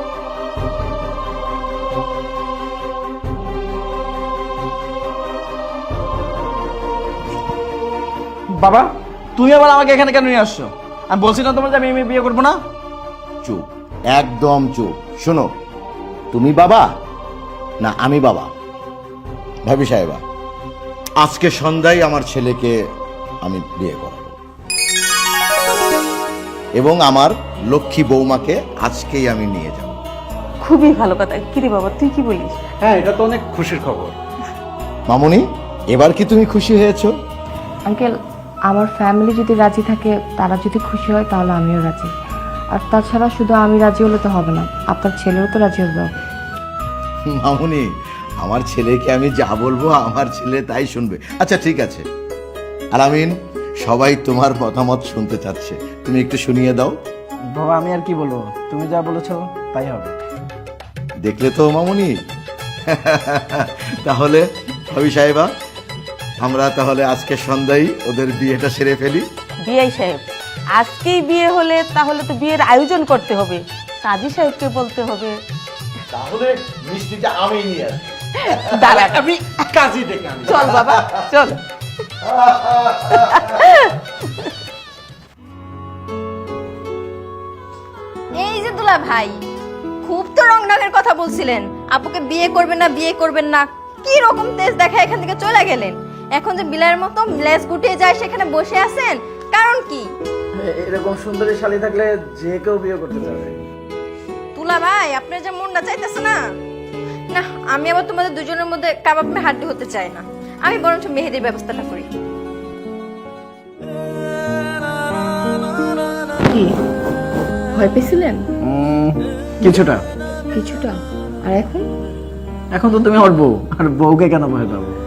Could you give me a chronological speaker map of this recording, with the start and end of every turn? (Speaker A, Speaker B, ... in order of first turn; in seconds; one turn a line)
Speaker A: 8.6-12.6
Speaker B: 13.4-15.5
Speaker B: 16.3-16.9
Speaker B: 17.8-18.5
Speaker B: 19.6-20.2
Speaker B: 21.2-22.8
Speaker B: 23.4-24.4
Speaker B: 26.8-30.0
Speaker C: 30.6-32.6
Speaker D: 32.8-34.1
Speaker B: 35.1-37.1
Speaker E: 38.7-42.1
Speaker E: 42.7-46.1
Speaker B: 47.3-47.9
Speaker B: 48.4-52.0
Speaker B: 52.9-57.0
Speaker A: 57.5-60.1
Speaker B: 61.2-62.1
Speaker B: 62.9-65.5
Speaker B: 66.4-69.2
Speaker C: 69.6-70.2
Speaker C: 70.8-75.4
Speaker B: 76.1-79.0
Speaker C: 78.5-79.3
Speaker D: 79.2-80.4
Speaker F: 80.5-81.5
Speaker B: 80.5-81.2
Speaker B: 82.2-83.5
Speaker F: 88.4-89.4
Speaker F: 90.0-100.1
Speaker A: 100.5-103.6
Speaker F: 104.5-106.4
Speaker F: 107.3-112.1
Speaker E: 116.5-116.7
Speaker E: 117.7-118.4
Speaker A: 118.6-120.0
Speaker E: 120.5-121.8
Speaker A: 122.7-125.0